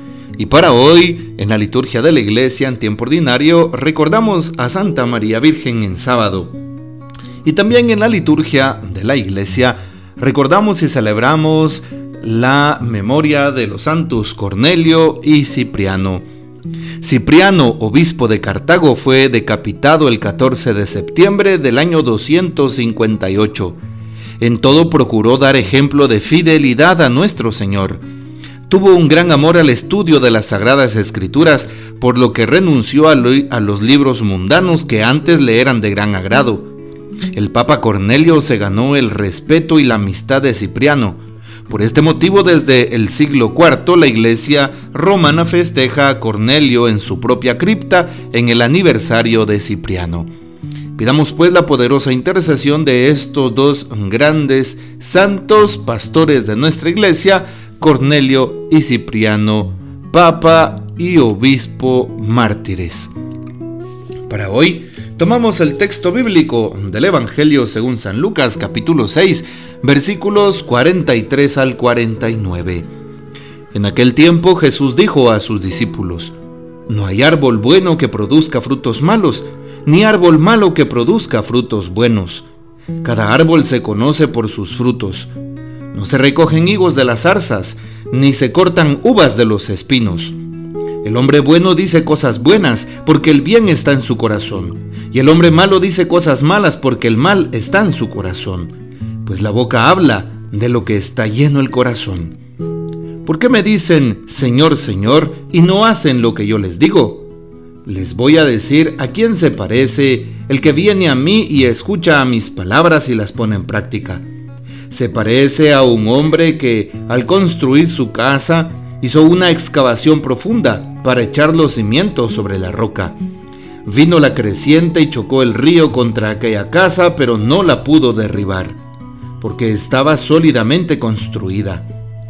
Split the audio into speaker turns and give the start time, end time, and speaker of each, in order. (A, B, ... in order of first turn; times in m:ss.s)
0:00.4-0:06.5 A
0:07.4-0:16.2 A
0:17.0-0:23.8 A
0:24.4-0:28.0 A
0:28.7-0:36.7 A
0:37.3-0:50.3 A
0:51.0-1:03.1 A
1:04.3-1:12.9 A
1:13.7-1:16.3 A
1:16.9-1:22.5 A
1:23.0-1:25.3 A
1:25.9-1:30.4 A
1:31.0-1:38.7 A
1:39.2-1:42.4 A
1:43.2-1:47.3 A
1:47.8-1:54.2 A
1:54.9-2:03.2 A
2:03.8-2:08.8 A
2:09.4-2:11.8 A